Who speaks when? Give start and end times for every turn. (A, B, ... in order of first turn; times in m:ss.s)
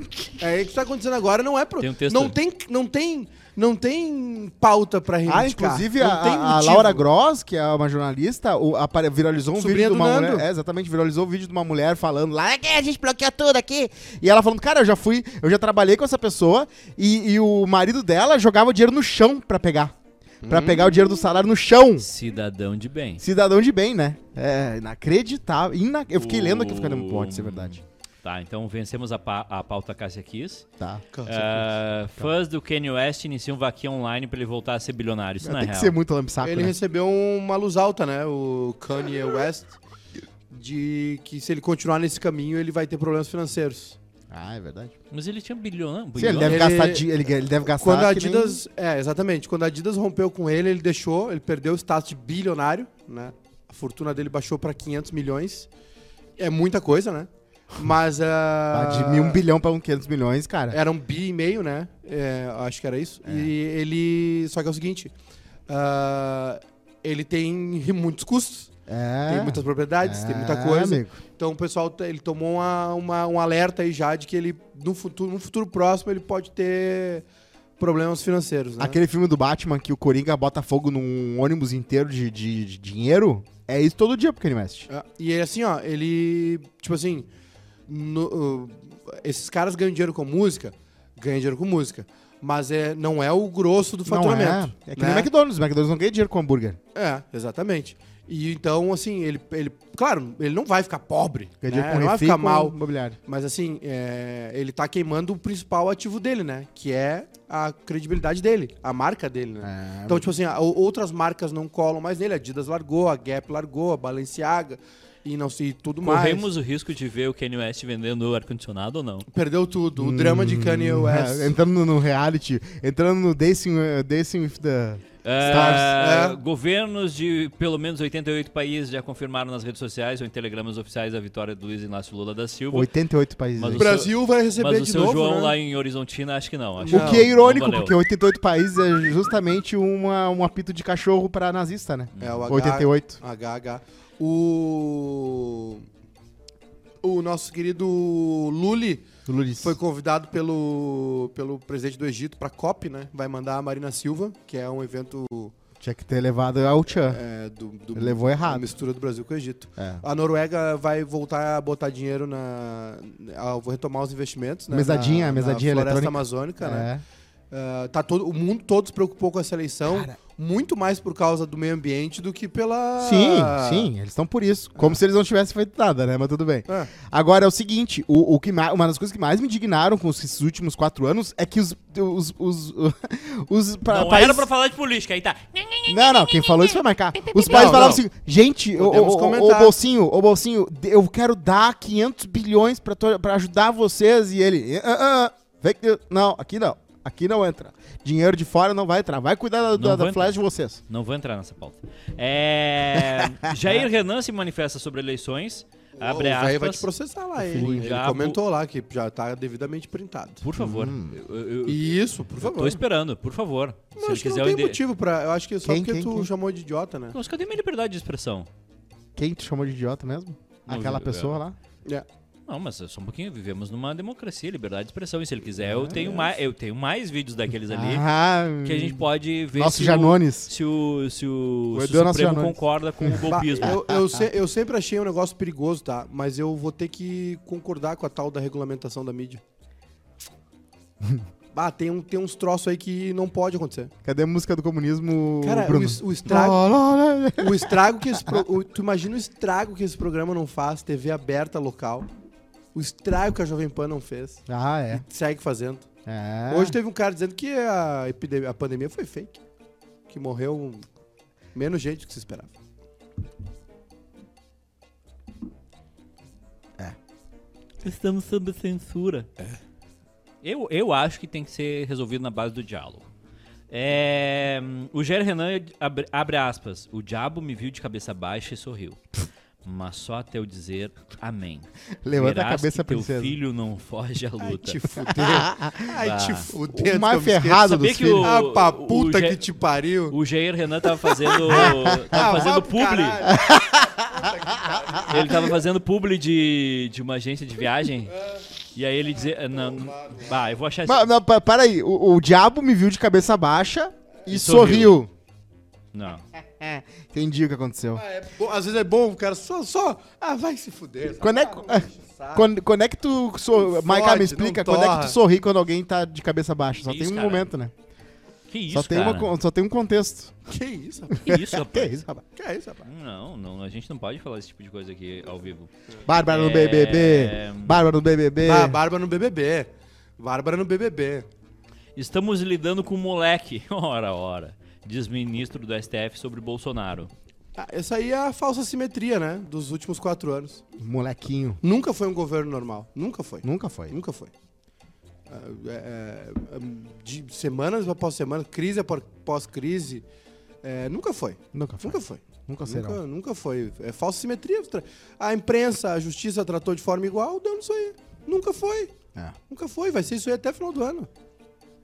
0:00.4-0:07.0 A
0:01.8-0:02.4 B
0:05.3-0:19.9 C
0:09.6-0:10.5 A
0:20.4-0:21.0 A
0:20.5-0:22.1 C
0:22.0-0:23.2 B
0:23.2-0:27.8 C
0:26.2-0:30.7 B
0:31.1-0:31.7 A
0:31.3-0:36.0 B
0:35.4-0:36.8 C
0:36.4-0:39.8 A
0:40.5-0:44.0 A
0:44.3-0:44.9 C
0:45.1-0:46.6 B
0:46.2-0:48.6 C
0:46.4-0:55.7 A
0:56.4-0:59.4 A
0:58.7-1:00.8 C
1:00.7-1:05.1 A
1:03.2-1:03.5 C
1:05.7-1:08.7 A
1:08.9-1:11.2 C
1:09.3-1:17.2 A
1:17.8-1:19.0 A
1:18.8-1:24.9 C
1:24.9-1:27.3 A
1:27.9-1:35.3 A
1:34.1-1:36.8 C
1:37.0-1:42.8 A
1:41.6-1:43.2 C
1:43.3-1:56.5 A
1:49.6-1:50.3 C
1:56.0-1:59.3 B
1:59.3-2:01.5 A
2:00.0-2:05.9 C
2:05.2-2:12.9 B
2:05.4-2:06.4 A
2:12.7-2:14.0 C
2:13.6-2:18.0 B
2:13.8-2:15.6 A
2:16.9-2:17.3 A
2:16.9-2:23.2 C
2:22.2-2:22.5 B
2:22.2-2:25.8 A
2:27.0-2:35.5 A
2:29.3-2:29.8 C
2:35.8-2:37.2 C
2:37.0-2:46.9 A
2:37.9-2:38.7 C
2:39.8-2:40.0 C
2:44.7-2:47.0 C
2:47.5-2:53.9 A
2:49.9-2:50.2 C
2:53.0-3:04.5 C
2:56.7-2:56.9 A
3:03.9-3:08.0 B
3:05.9-3:20.8 C
3:07.4-3:08.0 A
3:08.8-3:09.8 A
3:19.8-3:20.4 B
3:20.9-3:26.9 B
3:26.0-3:30.4 A
3:27.5-3:27.9 C
3:27.5-3:28.4 B
3:30.4-3:34.8 B
3:30.6-3:31.2 C
3:31.7-3:32.8 A
3:34.0-3:37.2 A
3:35.6-3:36.3 C
3:37.1-3:38.5 B
3:39.2-3:41.6 C
3:40.7-3:41.4 B
3:42.5-3:48.0 B
3:45.6-3:46.0 C
3:46.0-3:46.3 A
3:47.7-3:50.5 C
3:48.6-3:53.8 B
3:51.7-3:54.2 C
3:53.3-3:59.4 A
4:01.5-4:03.9 A
4:04.0-4:08.5 C
4:05.4-4:06.6 A
4:07.4-4:12.1 A
4:12.7-4:15.9 A
4:14.5-4:15.0 C
4:16.1-4:16.8 C
4:16.5-4:19.4 A
4:20.1-4:20.9 A
4:21.5-4:22.5 A
4:27.8-4:29.3 B
4:30.4-4:33.1 B
4:33.7-4:39.0 B
4:39.6-4:44.8 B
4:42.0-4:43.4 C
4:44.4-4:50.2 A
4:45.2-4:45.9 C
4:46.0-4:46.5 B
4:46.7-4:48.3 C
4:47.7-4:49.4 B
4:50.1-4:53.2 B
4:51.3-4:55.5 A
4:51.5-4:52.5 C
4:53.2-4:55.0 C
4:55.1-4:58.2 B
4:58.1-4:58.4 A
4:58.7-5:01.1 B
4:59.6-5:00.3 A
5:00.9-5:05.1 C
5:04.3-5:05.0 B
5:05.9-5:06.2 B
5:06.4-5:08.0 C
5:08.0-5:12.5 A
5:11.2-5:17.7 C
5:13.6-5:15.2 A
5:16.8-5:17.5 B
5:18.5-5:19.3 B
5:18.7-5:20.4 C
5:20.5-5:21.2 A
5:21.2-5:22.0 B
5:21.3-5:22.2 C
5:22.4-5:22.9 A
5:22.8-5:25.7 B
5:26.1-5:28.8 C
5:26.3-5:27.8 B
5:28.4-5:31.3 A
5:32.0-5:37.1 B
5:37.6-5:40.6 A
5:40.8-5:41.6 C
5:41.6-5:44.3 A
5:43.4-5:44.0 C
5:45.3-5:50.0 A
5:50.6-5:58.9 A
5:51.5-5:53.0 C
5:59.5-6:01.1 A